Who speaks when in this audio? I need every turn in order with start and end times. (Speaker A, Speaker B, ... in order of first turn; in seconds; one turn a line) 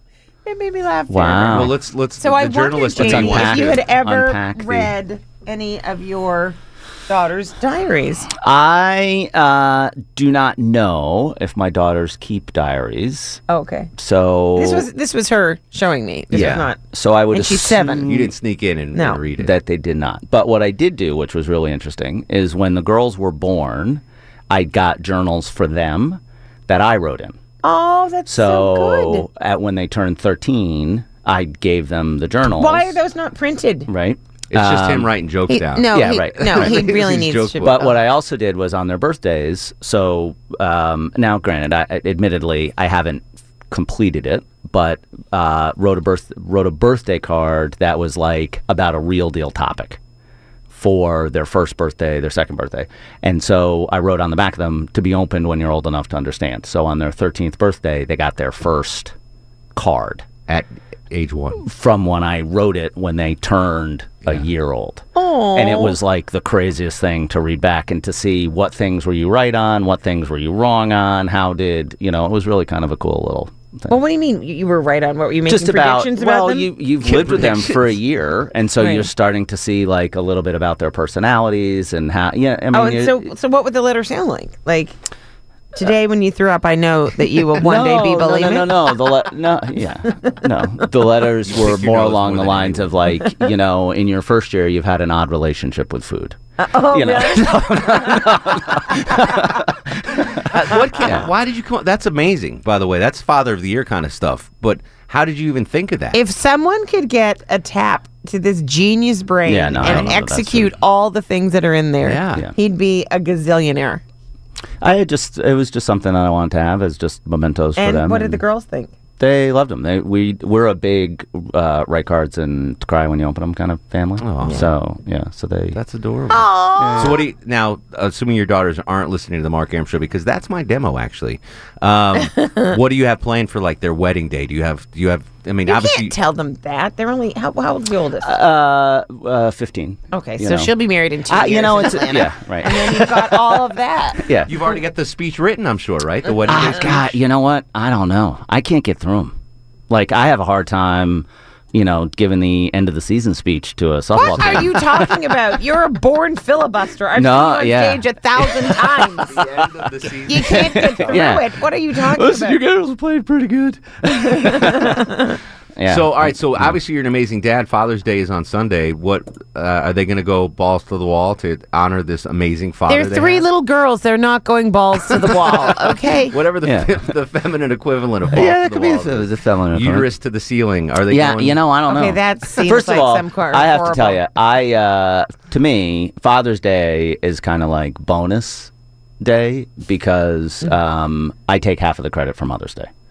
Speaker A: 0.5-1.7
Speaker B: 1.1-1.8
Speaker C: 1.5-3.9
Speaker A: 2.2-8.3
Speaker B: 3.0-4.9
Speaker B: 8.4-13.4
Speaker A: 13.5-13.9
Speaker B: 14.0-14.9
Speaker A: 14.6-16.8
Speaker B: 16.3-18.3
Speaker A: 17.3-18.1
Speaker C: 18.1-19.6
Speaker A: 18.9-19.2
Speaker B: 19.4-27.4
Speaker A: 27.6-29.2
Speaker B: 28.3-33.0
Speaker A: 32.6-33.9
Speaker B: 33.9-35.1
Speaker C: 34.5-37.9
Speaker A: 35.5-37.8
Speaker B: 35.9-36.8
Speaker B: 37.6-50.0
Speaker B: 50.7-59.1
Speaker B: 59.8-60.3
Speaker C: 60.5-61.6
Speaker B: 61.6-74.0
Speaker A: 65.2-66.0
Speaker A: 73.9-76.7
Speaker B: 75.5-83.3
Speaker C: 77.0-77.9
Speaker A: 78.8-79.1
Speaker A: 82.7-85.0
Speaker A: 85.8-88.7
Speaker B: 87.6-96.4
Speaker C: 91.5-93.0
Speaker A: 96.6-99.4
Speaker B: 96.9-101.3
Speaker C: 100.4-106.2
Speaker A: 106.1-114.0
Speaker B: 109.5-110.8
Speaker C: 109.8-110.2
Speaker C: 112.0-112.5
Speaker B: 114.8-118.4
Speaker A: 117.8-118.9
Speaker B: 119.2-125.8
Speaker C: 124.2-124.7
Speaker C: 125.7-136.2
Speaker A: 126.3-127.2
Speaker B: 126.8-127.2
Speaker A: 132.3-132.7
Speaker A: 135.7-138.3
Speaker B: 138.2-140.7
Speaker A: 140.1-144.2
Speaker B: 141.3-143.6
Speaker B: 144.2-144.5
Speaker C: 144.4-147.2
Speaker B: 146.5-149.3
Speaker B: 149.9-155.2
Speaker A: 154.2-159.4
Speaker C: 154.3-154.6
Speaker B: 157.2-159.0
Speaker C: 159.3-161.3
Speaker A: 160.3-162.6
Speaker B: 160.4-165.2
Speaker A: 164.1-165.4
Speaker B: 165.8-166.7
Speaker C: 165.9-173.4
Speaker A: 172.9-176.4
Speaker C: 175.3-181.6
Speaker B: 176.6-176.9
Speaker B: 178.3-180.1
Speaker B: 181.1-188.7
Speaker A: 181.9-184.2
Speaker B: 189.2-192.9